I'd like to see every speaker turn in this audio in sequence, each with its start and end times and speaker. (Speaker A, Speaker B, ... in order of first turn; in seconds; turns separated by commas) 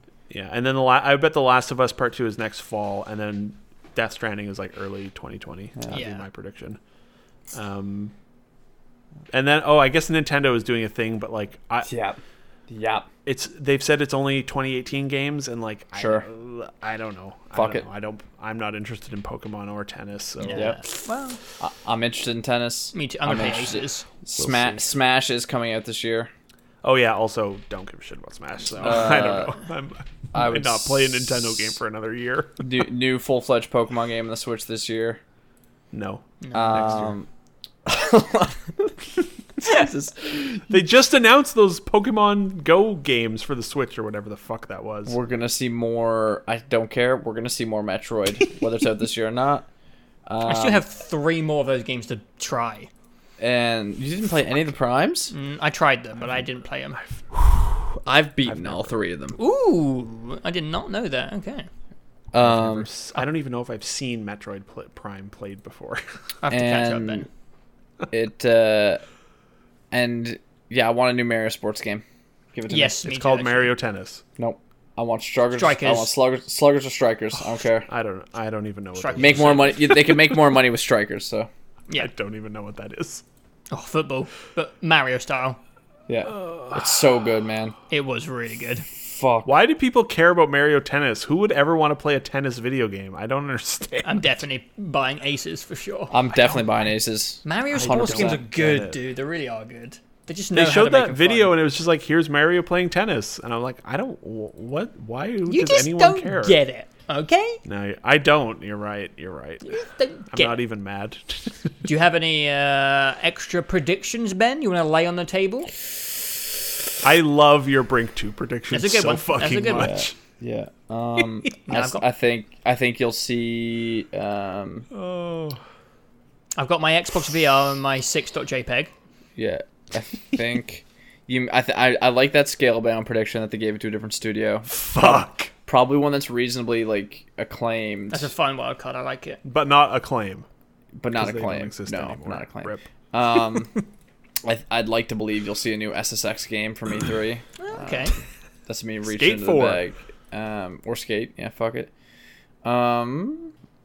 Speaker A: 0.3-6.8, Speaker B: 5.8-6.0, Speaker C: 5.9-6.2, Speaker A: 7.5-8.1, Speaker A: 9.3-11.9, Speaker B: 11.8-13.1, Speaker A: 13.2-20.8, Speaker B: 15.9-16.2, Speaker B: 17.5-17.9, Speaker C: 20.4-21.4, Speaker B: 20.5-20.8, Speaker B: 21.6-26.3, Speaker C: 22.9-24.0, Speaker A: 24.4-24.9, Speaker A: 26.8-32.7, Speaker B: 28.8-29.5, Speaker B: 30.3-31.7, Speaker B: 32.6-35.2, Speaker A: 35.9-37.1, Speaker C: 36.4-37.0, Speaker B: 36.5-37.3, Speaker B: 37.8-40.6, Speaker A: 40.7-45.2, Speaker B: 45.0-49.7, Speaker B: 50.3-50.9, Speaker C: 50.4-52.9, Speaker B: 53.4-55.3, Speaker C: 55.3-57.0, Speaker B: 57.9-59.4, Speaker A: 58.5-58.9, Speaker C: 59.4-61.7, Speaker B: 62.3-62.9, Speaker A: 62.3-66.0, Speaker C: 66.4-67.3, Speaker B: 66.5-67.3, Speaker B: 68.1-69.0, Speaker B: 69.9-73.0, Speaker C: 72.7-73.7, Speaker A: 73.0-74.2, Speaker B: 74.4-77.9, Speaker C: 75.5-76.1, Speaker A: 77.9-80.4, Speaker C: 78.9-79.9, Speaker B: 79.2-81.5, Speaker A: 81.9-83.2, Speaker C: 83.7-85.6, Speaker B: 86.1-87.7, Speaker A: 86.2-87.1, Speaker C: 87.9-88.8, Speaker B: 89.0-89.5, Speaker A: 89.4-94.4, Speaker C: 94.0-96.2, Speaker B: 96.1-98.4, Speaker A: 96.3-96.6, Speaker C: 97.4-101.5, Speaker A: 97.7-99.0, Speaker A: 100.5-106.6, Speaker C: 105.5-107.6, Speaker A: 107.6-111.8, Speaker C: 109.6-110.6, Speaker C: 111.8-115.7, Speaker A: 117.0-120.1, Speaker C: 118.7-119.9, Speaker B: 119.7-124.9, Speaker C: 121.7-122.0, Speaker A: 124.9-125.6, Speaker C: 126.6-128.9, Speaker B: 129.3-138.3, Speaker A: 134.7-135.5, Speaker C: 138.1-139.4, Speaker A: 139.4-140.4, Speaker B: 141.0-143.8, Speaker A: 141.1-142.8, Speaker B: 144.4-148.1, Speaker C: 147.6-148.1, Speaker B: 148.7-151.9, Speaker A: 149.0-149.8, Speaker B: 152.6-153.5